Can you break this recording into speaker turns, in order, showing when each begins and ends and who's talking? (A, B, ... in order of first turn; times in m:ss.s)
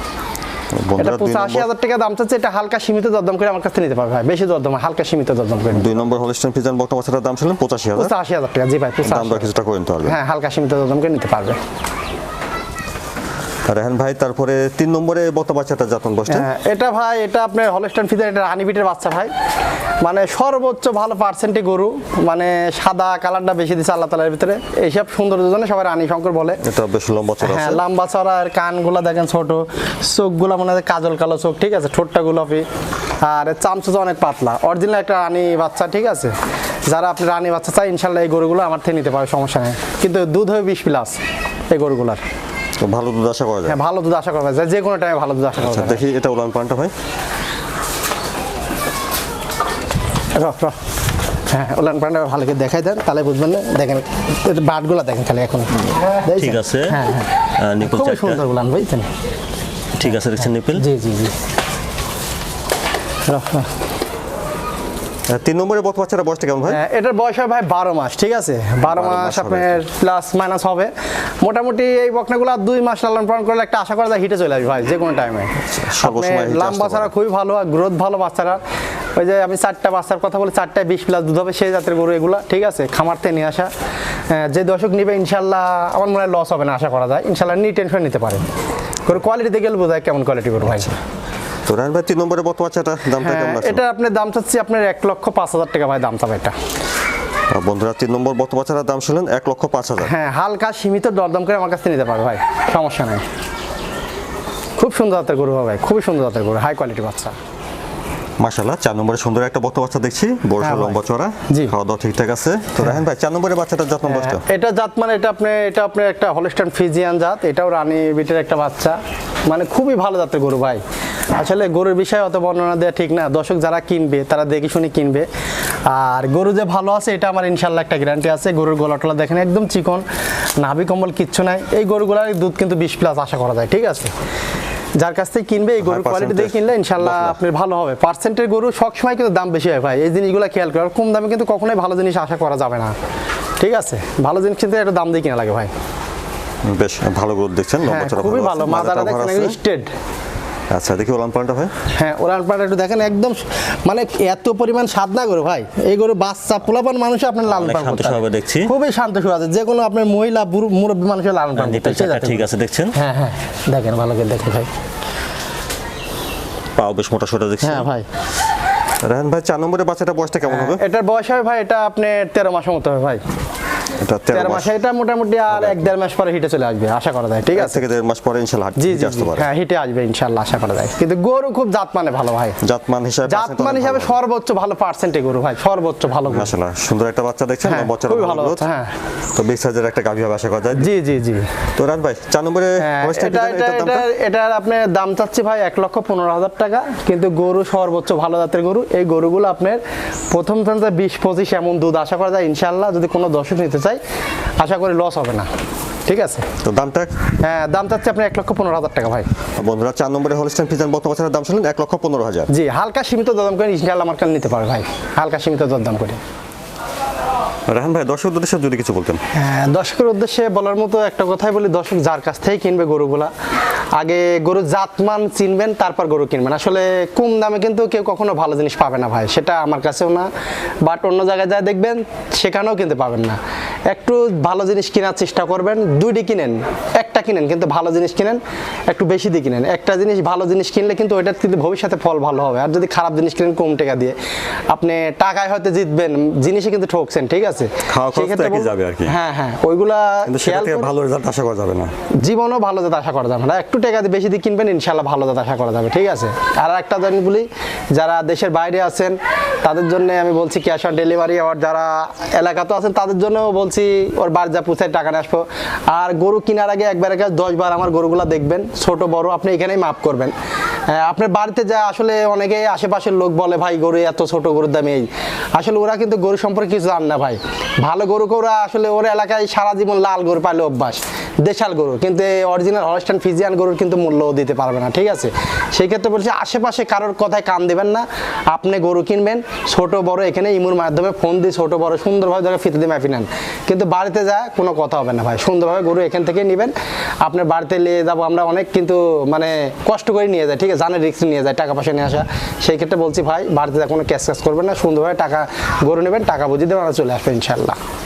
0:00.7-0:01.7 A
0:01.0-0:06.0 B
0:05.7-0:08.1 A
0:08.0-0:09.5 B
0:09.0-0:10.2 A
0:10.0-0:11.6 B
0:13.7-0:16.5 A
0:16.3-0:19.3 B
0:20.0-0:26.6 B
0:26.6-0:27.8 A
0:27.4-0:32.6 B
0:33.2-0:36.3 B
0:36.9-0:41.2 B
0:41.7-0:42.2 B
0:42.8-0:43.8 A
0:43.7-0:46.0 B
0:45.6-0:46.9 A
0:50.4-0:50.8 B
0:51.5-0:59.1 B
0:56.4-0:56.9 C
0:57.8-0:58.2 A
0:57.9-0:58.4 C
1:00.0-1:00.8 C
1:00.1-1:00.5 A
1:00.7-1:01.4 B
1:03.3-1:03.7 B
1:05.3-1:06.8 A
1:06.7-1:18.6 B
1:08.8-1:09.8 A
1:15.8-1:17.1 A
1:19.2-1:23.7 B
1:24.3-1:28.4 B
1:29.1-1:31.0 B
1:31.7-1:33.8 A
1:33.2-1:36.5 B
1:37.5-1:40.1 A
1:40.0-1:43.2 B
1:44.8-1:47.4 B
1:48.4-1:54.4 A
1:50.6-1:51.0 B
1:54.0-2:00.8 B
2:01.4-2:05.3 B
2:05.9-2:10.0 B
2:10.6-2:14.1 B
2:15.0-2:22.9 B
2:15.8-2:17.4 A
2:23.6-2:25.7 B
2:26.7-2:29.6 A
2:27.9-2:29.9 B
2:30.7-2:31.7 A
2:32.0-2:44.7 B
2:37.5-2:38.6 C
2:37.6-2:38.5 A
2:41.6-2:42.6 C
2:42.4-2:42.9 A
2:46.8-2:47.8 A
2:47.6-2:48.1 B
2:49.0-2:50.8 A
2:50.5-2:53.2 B
2:54.0-2:54.8 A
2:54.3-2:57.8 B
2:55.5-2:55.9 A
2:57.6-2:59.5 A
2:58.8-3:02.6 B
3:02.6-3:04.2 A
3:03.3-3:06.5 B
3:06.3-3:08.7 A
3:07.6-3:08.9 B
3:09.4-3:10.9 A
3:10.8-3:11.5 B
3:11.8-3:14.1 A
3:12.8-3:24.0 B
3:24.6-3:25.5 B
3:26.1-3:26.4 B
3:26.6-3:27.1 A
3:27.4-3:29.3 B
3:29.6-3:32.5 A
3:32.5-3:36.2 B
3:37.7-3:39.2 A
3:39.4-3:43.3 B
3:44.0-3:50.3 B
3:50.8-3:53.4 B
3:53.9-4:04.2 B
4:04.7-4:10.9 B
4:07.9-4:09.2 A
4:10.3-4:11.9 A
4:12.2-4:30.3 B
4:30.9-5:07.8 B